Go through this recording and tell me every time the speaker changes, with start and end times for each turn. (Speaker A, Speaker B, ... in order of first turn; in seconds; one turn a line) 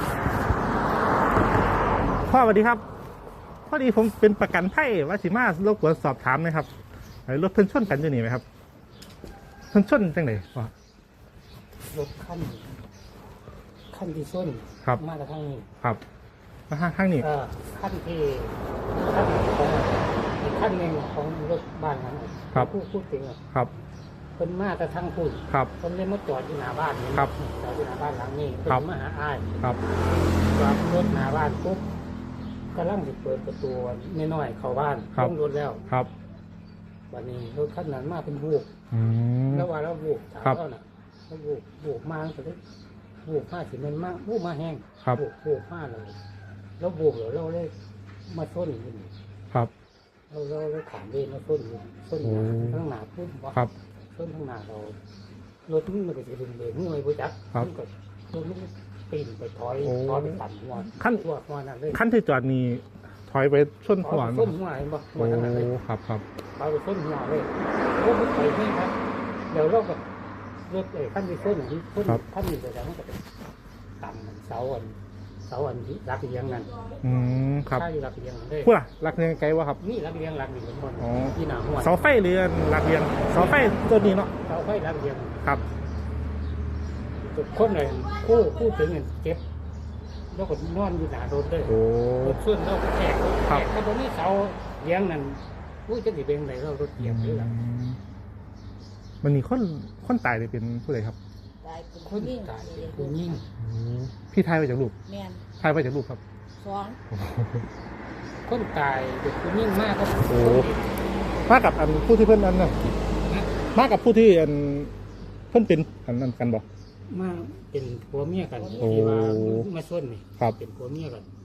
Speaker A: 2.2-2.8
Speaker A: 3.7-6.7
Speaker A: 7.3-8.4
Speaker A: 9.7-10.7
Speaker B: 11.9-12.8
Speaker B: 13.9-15.7
Speaker A: 16.7-17.2
Speaker B: 17.2-23.4
Speaker B: 24.4-29.6
Speaker B: 30.4-31.9
Speaker B: 32.7-35.8
Speaker B: 37.1-38.7
Speaker A: 38.9-39.7
Speaker B: 39.5-42.6
Speaker B: 43.2-46.2
Speaker B: 46.8-47.7
Speaker B: 48.3-49.1
Speaker B: 50.3-53.6
Speaker A: 52.2-52.8
Speaker B: 54.1-55.0
Speaker B: 55.6-62.0
Speaker A: 59.8-61.2
Speaker A: 61.9-64.5
Speaker B: 64.0-65.7
Speaker A: 65.1-66.2
Speaker B: 66.5-69.0
Speaker B: 69.5-70.0
Speaker B: 70.7-73.2
Speaker B: 74.0-76.9
Speaker A: 77.0-77.9
Speaker B: 77.7-78.7
Speaker A: 78.6-79.8
Speaker B: 79.8-82.0
Speaker A: 81.0-84.3
Speaker B: 83.2-85.4
Speaker B: 87.2-89.4
Speaker B: 90.3-97.5
Speaker A: 91.7-92.4
Speaker A: 97.0-98.0
Speaker A: 99.2-101.2
Speaker C: 101.6-103.1
Speaker B: 102.0-103.5
Speaker A: 103.5-105.0
Speaker C: 105.0-105.5
Speaker A: 105.6-106.2
Speaker C: 106.6-107.0
Speaker A: 107.1-107.7
Speaker B: 108.5-111.0
Speaker A: 110.3-110.7
Speaker A: 111.5-113.0
Speaker B: 113.3-113.6
Speaker A: 113.7-114.9
Speaker A: 115.5-116.6
Speaker B: 117.1-121.3
Speaker A: 118.8-119.7